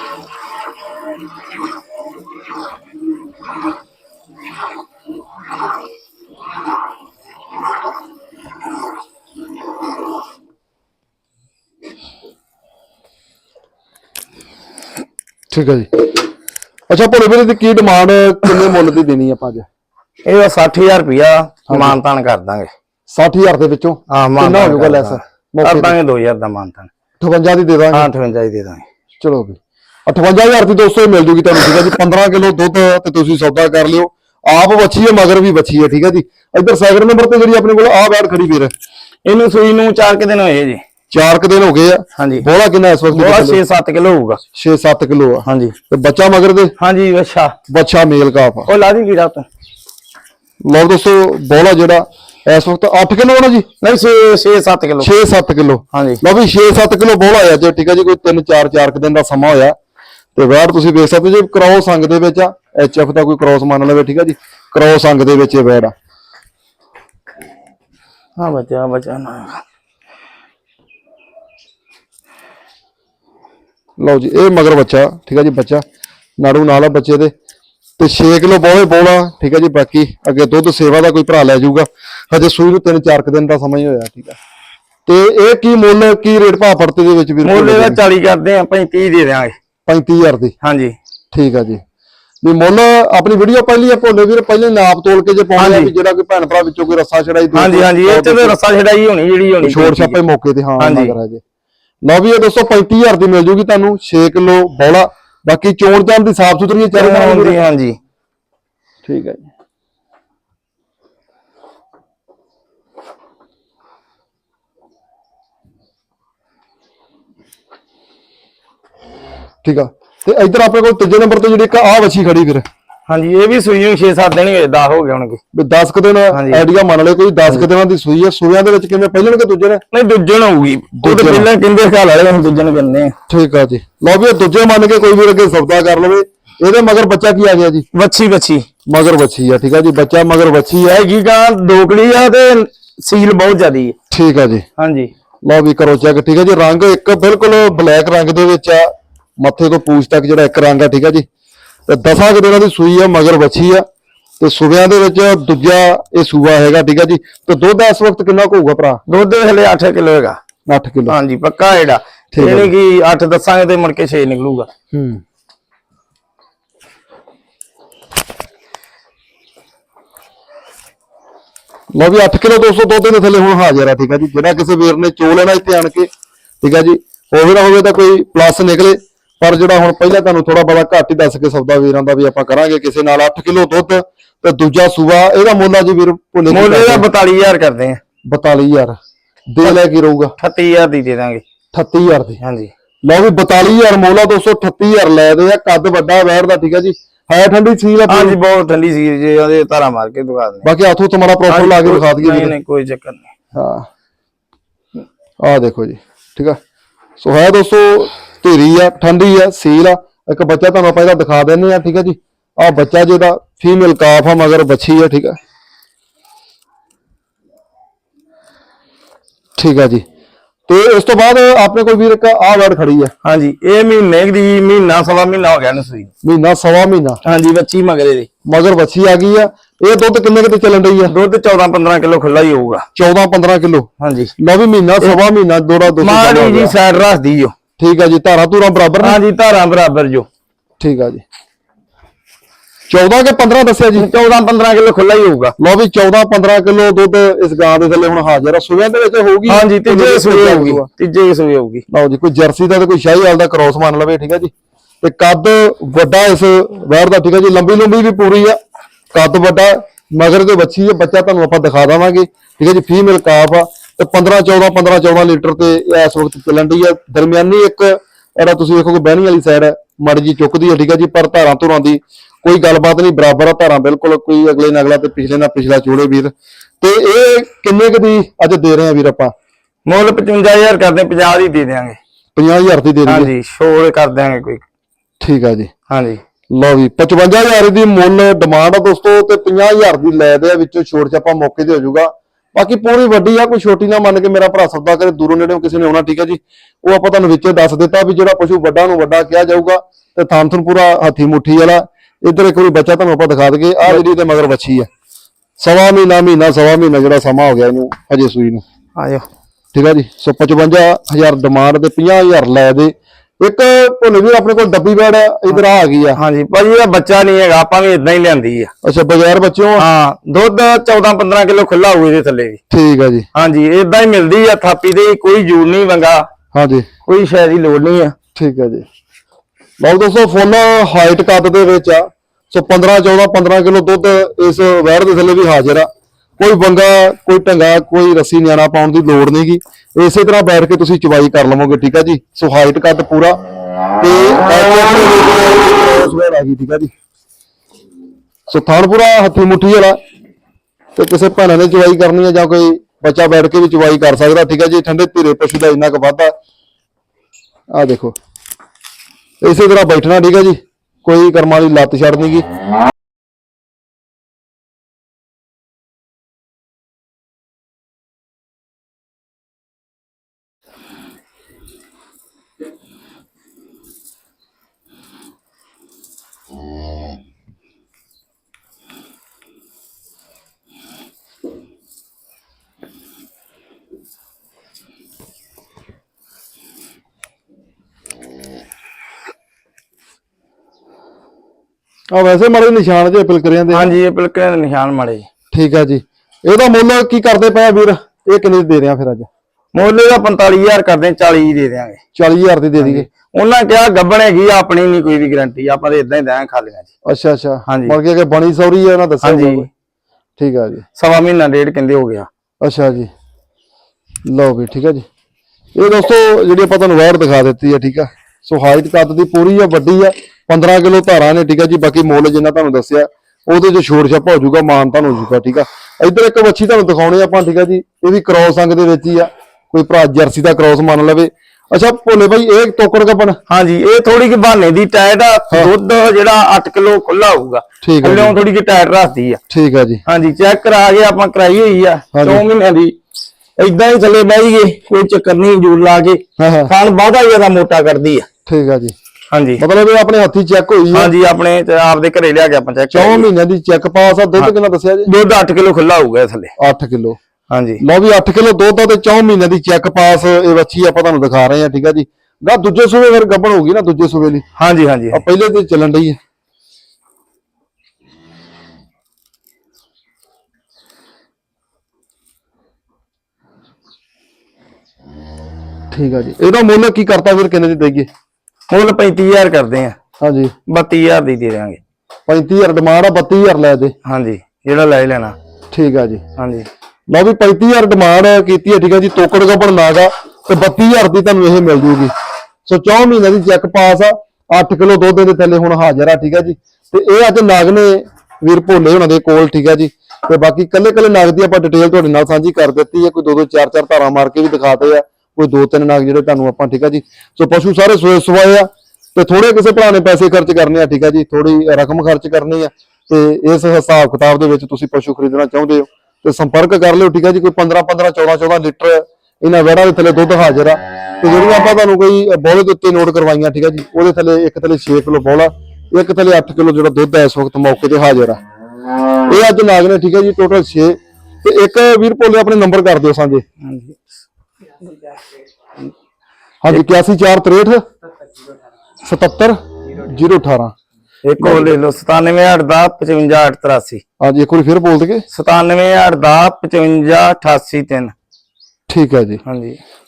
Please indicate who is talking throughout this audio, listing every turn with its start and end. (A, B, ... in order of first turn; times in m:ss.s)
0:15.5-0:16.1 A
0:16.9-0:19.7 A
0:20.2-0:22.7 B
0:21.7-0:22.0 A
0:23.1-0:25.9 A
0:24.1-0:26.9 B
0:27.2-0:28.1 A
0:27.9-0:28.9 B
0:29.2-0:38.7 A
0:39.2-0:40.8 B
0:41.1-0:43.6 A
0:42.2-0:42.5 B
0:43.1-0:44.4 B
0:44.5-0:46.7 A
0:45.5-0:45.8 B
0:46.8-0:47.6 B
0:47.7-0:48.7 A
0:48.7-0:49.5 B
0:50.6-0:53.7 A
0:53.8-0:55.1 B
0:55.0-0:59.8 A
0:55.9-0:56.2 B
1:00.4-1:05.9 A
1:08.4-1:09.6 B
1:14.0-1:15.8 A
1:16.4-1:17.3 A
1:18.0-1:24.4 A
1:25.1-1:28.0 A
1:27.4-1:29.6 B
1:29.9-1:30.5 A
1:30.6-1:31.0 B
1:31.3-1:31.8 A
1:32.4-1:38.6 A
1:35.6-1:35.9 B
1:37.5-1:40.2 B
1:39.6-1:41.4 A
1:40.8-1:41.2 B
1:42.1-1:47.6 A
1:46.9-1:48.0 B
1:49.1-1:49.5 A
1:59.6-2:02.6 A
2:03.1-2:05.4 B
2:05.5-2:09.8 A
2:06.3-2:06.7 B
2:09.9-2:13.1 B
2:11.0-2:11.5 A
2:13.3-2:17.9 A
2:17.9-2:18.7 B
2:18.9-2:21.0 A
2:20.8-2:23.9 B
2:24.1-2:24.6 A
2:24.8-2:25.1 B
2:25.5-2:31.2 A
2:31.9-2:33.8 A
2:34.4-2:39.0 A
2:39.1-2:40.4 B
2:40.7-2:41.2 A
2:41.1-2:44.7 B
2:42.3-2:42.7 A
2:44.9-2:45.2 A
2:51.9-2:56.1 A
2:56.6-3:07.0 A
3:06.5-3:08.0 B
3:08.3-3:09.0 A
3:09.5-3:10.3 A
3:10.4-3:11.4 B
3:11.7-3:12.4 A
3:12.4-3:12.7 B
3:13.0-3:18.4 A
3:18.1-3:20.7 B
3:20.6-3:22.5 A
3:21.5-3:23.3 B
3:23.5-3:23.9 A
3:25.4-3:26.6 A
3:27.2-3:35.4 A
3:39.6-3:40.0 A
3:40.7-3:43.1 A
3:43.2-3:46.1 B
3:46.2-3:47.2 A
3:47.2-3:48.3 B
3:48.5-3:51.1 A
3:51.0-3:52.9 B
3:53.0-3:53.9 A
3:54.0-3:54.3 B
3:54.4-3:56.8 A
3:56.0-3:57.5 B
3:57.8-3:59.2 A
3:59.0-4:00.3 B
4:00.8-4:01.2 A
4:02.9-4:04.1 A
4:04.0-4:05.6 B
4:05.6-4:10.9 A
4:09.5-4:11.8 B
4:11.9-4:14.5 A
4:15.0-4:18.6 A
4:19.1-4:39.3 A
4:39.9-4:42.0 B
4:42.4-4:43.3 A
4:43.1-4:44.6 B
4:45.2-4:45.7 A
4:45.9-4:46.2 B
4:46.5-5:04.9 A
5:05.6-5:08.6 A
5:09.0-5:09.3 B
5:09.7-5:16.2 A
5:16.1-5:18.7 B
5:18.8-5:19.8 A
5:19.8-5:22.6 B
5:22.7-5:23.3 A
5:23.3-5:26.3 B
5:26.5-5:26.9 A
5:27.1-5:28.1 B
5:28.4-5:28.9 A
5:29.8-5:43.4 A
5:44.0-5:46.9 A
5:48.5-5:50.0 A
5:51.0-5:56.3 A
5:57.7-5:58.1 A
5:59.4-6:02.5 A
6:32.1-6:33.9 A
6:33.7-6:35.3 B
6:35.5-6:39.3 A
6:39.8-6:42.0 B
6:42.1-6:43.1 A
6:42.8-6:46.9 B
6:47.1-6:49.7 A
6:47.7-6:48.0 B
6:49.2-6:49.7 B
6:50.4-6:50.8 A
6:51.0-6:52.3 B
6:52.6-6:53.1 A
6:54.2-6:55.1 A
6:55.8-7:13.4 A
7:13.5-7:19.4 B
7:17.8-7:18.4 A
7:19.5-7:20.0 A
7:20.1-7:23.0 B
7:22.1-7:22.4 A
7:23.6-7:28.3 B
7:26.4-7:26.7 A
7:28.5-7:29.0 A
7:29.3-7:29.6 B
7:29.6-7:31.1 A
7:30.9-7:33.3 B
7:32.9-7:35.1 A
7:35.0-7:36.5 B
7:36.6-7:37.2 A
7:37.5-7:37.8 B
7:37.8-7:44.4 A
7:44.6-7:45.2 B
7:45.1-7:46.2 A
7:55.9-7:58.1 A
7:58.7-8:00.0 B
8:00.2-8:00.5 A
8:00.7-8:01.8 B
8:02.3-8:03.9 A
8:04.0-8:05.4 B
8:05.7-8:06.2 A
8:06.4-8:06.7 B
8:07.1-8:12.1 A
8:12.6-8:48.4 A
8:49.3-8:53.4 A
8:53.6-8:54.1 B
8:56.6-8:57.8 A
8:56.7-8:57.0 B
8:59.0-9:00.7 A
9:01.2-9:04.0 B
9:01.4-9:01.7 A
9:04.2-9:05.2 A
9:05.3-9:08.1 B
9:08.9-9:09.4 A
9:09.5-9:09.8 B